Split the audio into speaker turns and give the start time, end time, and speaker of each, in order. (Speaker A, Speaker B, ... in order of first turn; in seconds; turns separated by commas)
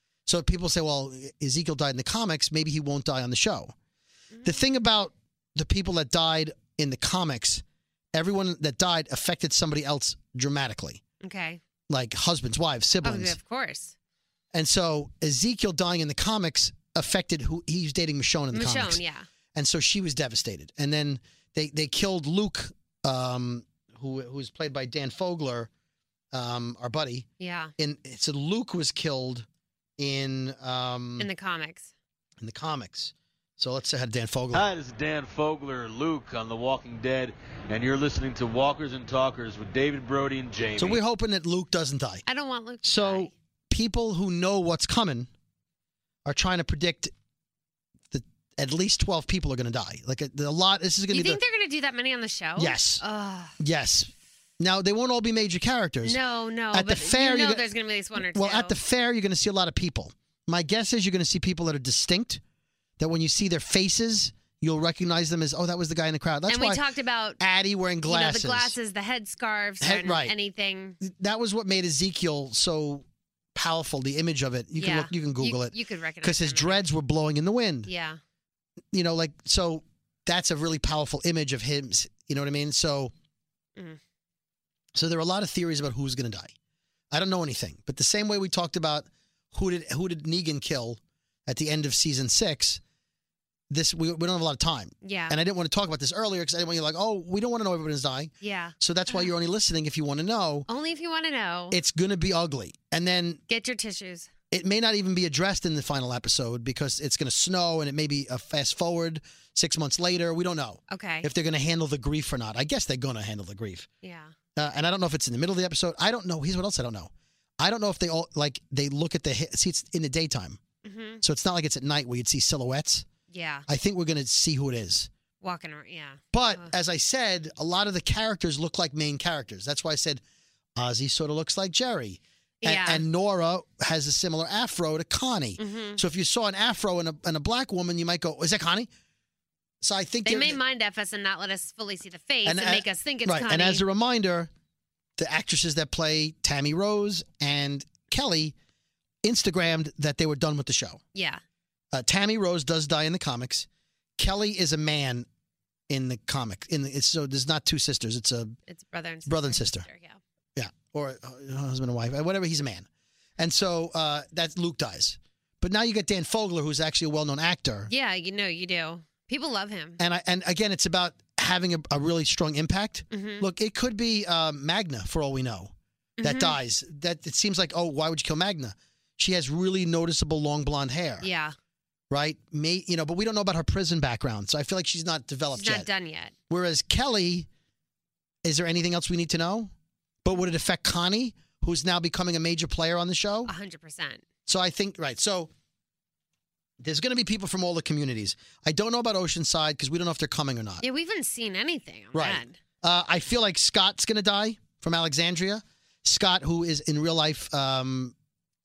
Speaker A: 0.3-3.7, Speaker B: 4.3-4.6, Speaker A: 4.4-7.6, Speaker A: 8.1-11.0, Speaker B: 11.2-11.6, Speaker A: 11.9-13.4, Speaker B: 13.0-13.9, Speaker A: 14.5-19.0, Speaker B: 18.5-19.3, Speaker A: 19.6-25.7, Speaker A: 26.3-27.3, Speaker B: 27.4-27.7, Speaker A: 27.8-29.5, Speaker A: 30.0-31.3, Speaker B: 31.2-31.9, Speaker A: 32.4-34.7, Speaker C: 34.5-41.0, Speaker A: 40.8-42.2, Speaker B: 42.3-43.3, Speaker A: 42.8-45.3, Speaker A: 46.2-47.1, Speaker A: 48.1-51.4, Speaker B: 51.1-53.6, Speaker A: 52.6-53.0, Speaker A: 53.6-56.2, Speaker B: 56.0-58.8, Speaker A: 56.7-57.6, Speaker A: 58.2-62.4, Speaker A: 63.0-66.8, Speaker B: 66.5-67.4, Speaker A: 67.4-68.8, Speaker B: 68.0-71.0, Speaker A: 69.8-70.3, Speaker A: 71.0-77.9, Speaker B: 74.8-76.8, Speaker B: 77.9-78.2, Speaker A: 78.9-83.1, Speaker A: 85.0-86.5, Speaker A: 87.1-92.8, Speaker A: 93.7-100.7, Speaker B: 95.0-95.4, Speaker B: 98.4-99.3, Speaker B: 100.7-101.8, Speaker A: 101.7-103.4, Speaker B: 103.5-104.3, Speaker A: 104.5-113.9, Speaker B: 110.9-111.3, Speaker B: 114.0-114.3, Speaker A: 114.6-120.6, Speaker B: 120.8-121.2, Speaker A: 121.2-123.1, Speaker B: 123.3-123.7, Speaker A: 123.7-125.1, Speaker B: 125.4-126.7, Speaker A: 126.3-130.2, Speaker A: 130.8-138.9, Speaker B: 132.6-133.0, Speaker B: 135.6-136.0, Speaker A: 139.8-140.6, Speaker B: 140.2-143.8, Speaker A: 142.4-144.5, Speaker A: 145.2-148.6, Speaker A: 149.2-151.0, Speaker B: 151.2-151.4, Speaker A: 151.9-153.7, Speaker A: 154.2-155.3, Speaker A: 155.9-158.6, Speaker B: 158.7-160.2, Speaker A: 159.3-159.9, Speaker A: 160.6-162.9, Speaker A: 163.4-167.9, Speaker B: 167.9-170.0, Speaker A: 170.0-181.3, Speaker B: 173.1-173.5, Speaker B: 176.2-176.6, Speaker B: 181.2-181.5, Speaker A: 182.1-185.9, Speaker B: 185.5-186.3, Speaker A: 186.5-187.5, Speaker A: 188.4-189.7, Speaker A: 190.2-193.5, Speaker B: 193.5-194.2, Speaker A: 194.5-195.5, Speaker A: 196.8-200.8, Speaker B: 200.8-202.6, Speaker A: 202.1-208.1